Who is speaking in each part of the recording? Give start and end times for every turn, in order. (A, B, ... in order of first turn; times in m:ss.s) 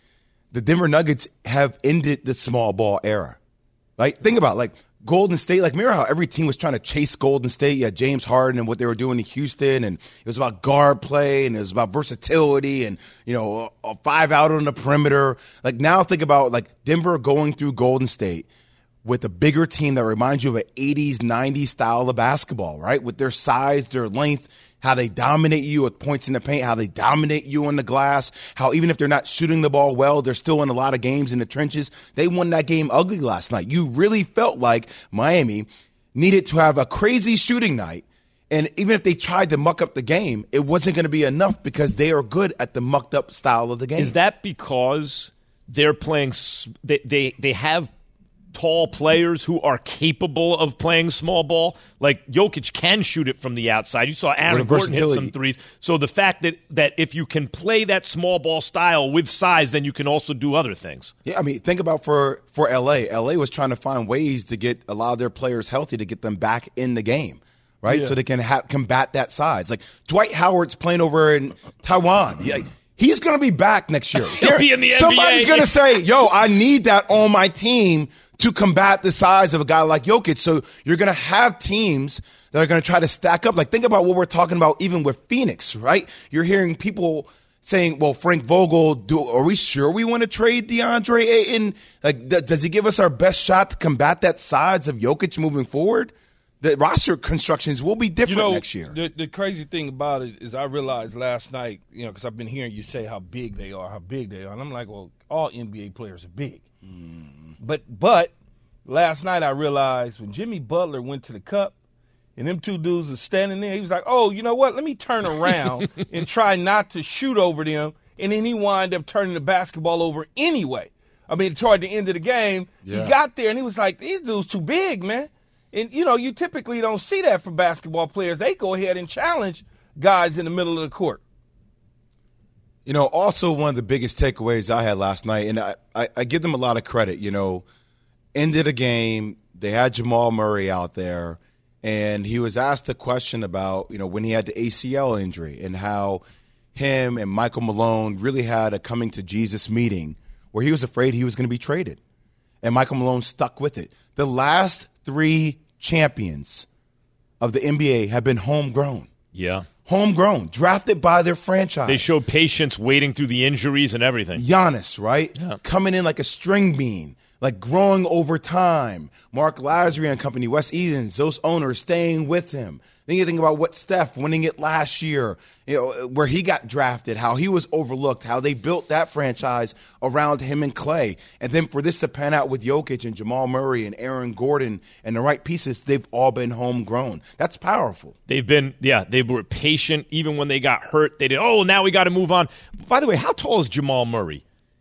0:00.5-0:03.4 A
0:04.0-0:18.5 A
0:19.0-0:44.2 A
0:44.0-0:47.9 B
0:48.5-1:01.1 B
0:54.5-0:55.3 A
1:01.2-1:39.0 A
1:07.9-1:08.2 C
1:14.3-1:15.8 B
1:38.2-1:46.6 C
1:46.8-1:47.5 A
1:47.6-1:48.3 C
1:48.8-1:51.7 C
1:52.4-2:11.2 C
2:02.8-2:03.1 A
2:12.8-2:17.6 A
2:18.3-2:26.2 A
2:26.7-2:32.0 A
2:32.6-2:36.7 A
2:37.4-2:39.1 A
2:39.3-2:39.7 B
2:39.8-2:42.1 A
2:41.9-2:44.4 B
2:44.4-3:08.1 A
3:08.3-3:14.4 B